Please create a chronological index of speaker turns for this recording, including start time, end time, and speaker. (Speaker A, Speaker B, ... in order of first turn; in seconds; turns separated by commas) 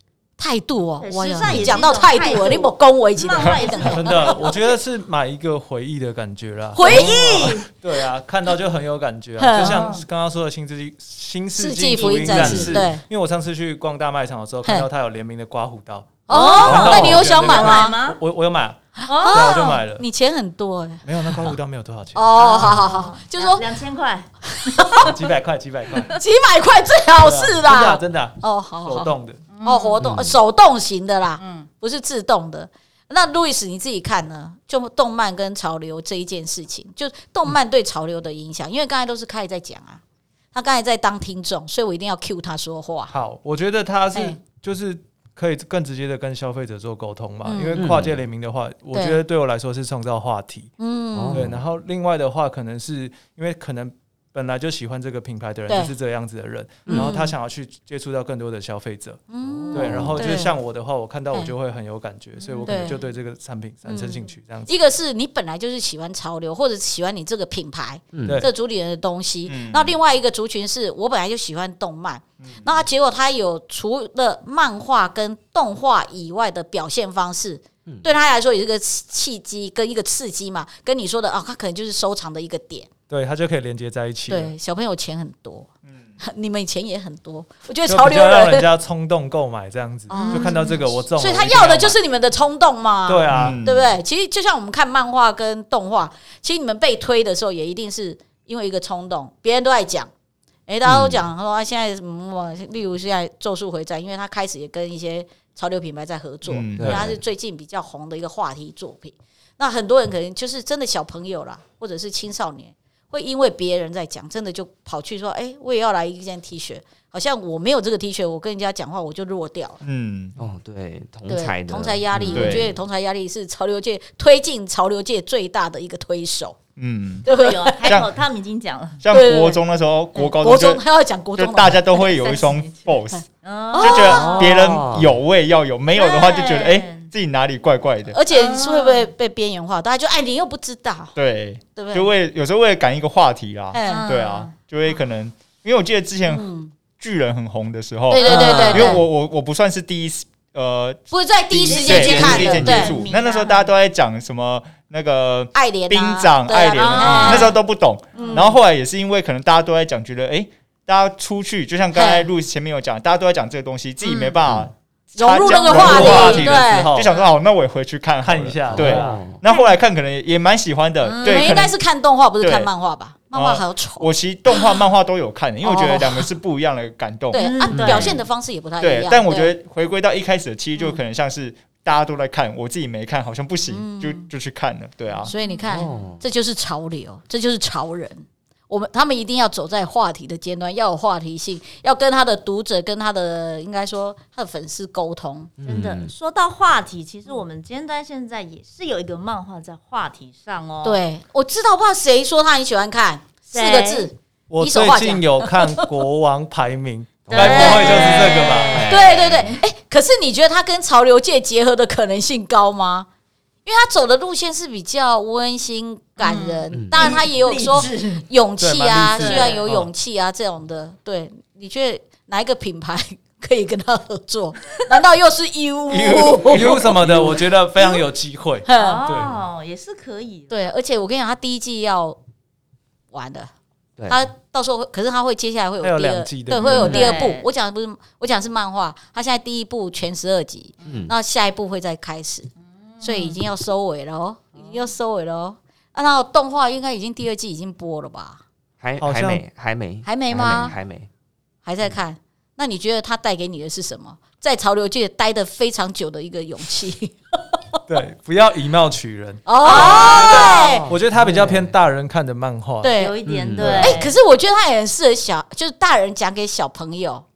Speaker A: 0.4-4.5, Speaker B: 1.0-4.5, Speaker C: 3.9-20.0, Speaker A: 6.7-7.6, Speaker B: 6.8-7.7, Speaker A: 9.4-9.9, Speaker B: 9.6-10.0, Speaker A: 11.6-13.0, Speaker B: 12.0-12.3, Speaker D: 12.3-12.8, Speaker A: 16.3-17.9, Speaker B: 16.3-18.2, Speaker D: 16.7-17.1, Speaker A: 19.0-21.0, Speaker B: 19.1-19.8, Speaker C: 21.0-22.8, Speaker A: 22.1-23.6, Speaker B: 22.4-25.1, Speaker A: 24.5-25.1, Speaker C: 25.0-26.2, Speaker A: 26.1-40.0, Speaker C: 27.2-29.4, Speaker B: 29.5-30.0, Speaker D: 30.0-30.4, Speaker B: 31.4-31.7, Speaker A: 40.5-43.1, Speaker C: 43.1-50.7, Speaker A: 44.1-44.4, Speaker A: 47.4-47.9, Speaker D: 47.8-48.2, Speaker A: 48.9-49.2, Speaker A: 50.8-51.4, Speaker D: 51.1-51.6, Speaker C: 51.3-64.7, Speaker A: 55.7-55.9, Speaker D: 56.9-57.1, Speaker A: 56.9-57.3, Speaker A: 59.3-60.5, Speaker D: 59.4-60.3, Speaker B: 62.4-62.8, Speaker A: 62.6-63.0, Speaker A: 63.9-82.9, Speaker D: 68.1-68.4, Speaker E: 69.5-69.9, Speaker E: 72.4-72.7, Speaker C: 83.1-84.5, Speaker A: 84.3-85.7, Speaker A: 86.2-88.7, Speaker C: 87.9-92.0, Speaker A: 90.1-100.1, Speaker B: 90.1-90.8, Speaker C: 93.1-93.6, Speaker E: 93.3-93.9, Speaker A: 100.7-119.8, Speaker D: 100.8-101.2, Speaker E: 106.5-107.0, Speaker D: 106.8-107.1, Speaker E: 119.8-120.3, Speaker D: 120.4-122.7, Speaker A: 121.3-126.5, Speaker E: 122.3-122.7, Speaker E: 126.8-127.2, Speaker A: 127.2-128.0, Speaker B: 127.2-129.0, Speaker E: 127.8-128.1, Speaker E: 129.0-130.8, Speaker A: 129.1-129.6, Speaker A: 130.1-134.5, Speaker E: 131.3-133.2, Speaker B: 133.4-134.5, Speaker E: 133.8-138.2, Speaker D: 134.2-135.1, Speaker B: 135.9-137.1, Speaker A: 138.1-141.1, Speaker B: 138.3-139.1, Speaker E: 141.2-146.4, Speaker A: 141.8-142.1, Speaker A: 143.7-144.1, Speaker B: 143.8-144.5, Speaker A: 146.3-146.7, Speaker E: 147.0-171.7, Speaker A: 148.1-149.0, Speaker B: 148.2-148.9, Speaker A: 151.1-152.9, Speaker B: 151.6-153.7, Speaker A: 155.5-157.5, Speaker B: 156.8-157.5, Speaker B: 158.1-158.5, Speaker A: 158.2-158.5, Speaker A: 161.9-162.3, Speaker A: 165.1-166.9, Speaker B: 165.5-166.4, Speaker C: 165.6-167.1, Speaker C: 168.2-169.2, Speaker D: 168.7-169.4, Speaker B: 171.0-171.7, Speaker A: 171.2-174.1, Speaker E: 172.4-172.7, Speaker E: 173.3-177.4, Speaker A: 175.6-176.3, Speaker A: 177.3-179.5, Speaker B: 177.3-178.2, Speaker D: 177.7-178.2, Speaker E: 178.8-185.3, Speaker A: 183.7-184.3, Speaker A: 185.2-195.5, Speaker B: 185.4-185.8, Speaker D: 185.7-186.2, Speaker D: 195.6-196.1, Speaker B: 195.7-201.0, Speaker A: 200.8-205.8, Speaker B: 203.5-204.1, Speaker C: 204.5-208.9, Speaker D: 207.2-209.5, Speaker B: 207.3-209.6, Speaker A: 207.4-208.3, Speaker A: 208.9-213.1, Speaker A: 213.7-226.9, Speaker B: 216.2-218.2, Speaker D: 216.7-217.2, Speaker C: 218.6-219.9, Speaker B: 219.2-219.6, Speaker E: 225.9-227.4, Speaker B: 226.1-226.4, Speaker C: 226.5-229.3, Speaker A: 227.8-228.0, Speaker A: 228.6-229.0, Speaker B: 228.8-230.5, Speaker A: 230.5-232.2, Speaker A: 233.1-233.5, Speaker A: 234.1-242.5, Speaker C: 235.8-237.1, Speaker D: 236.6-237.1, Speaker B: 236.7-237.4, Speaker D: 240.8-241.1, Speaker B: 243.0-243.3, Speaker A: 243.0-248.4, Speaker D: 248.8-251.1, Speaker C: 249.0-249.4, Speaker A: 250.0-250.7, Speaker B: 250.4-250.7, Speaker A: 251.6-257.1, Speaker C: 257.9-262.9, Speaker A: 259.4-260.9, Speaker B: 259.6-260.8, Speaker D: 259.7-261.7, Speaker A: 262.8-263.1, Speaker B: 262.9-264.1, Speaker D: 263.2-263.9, Speaker C: 263.6-263.9, Speaker A: 263.7-267.2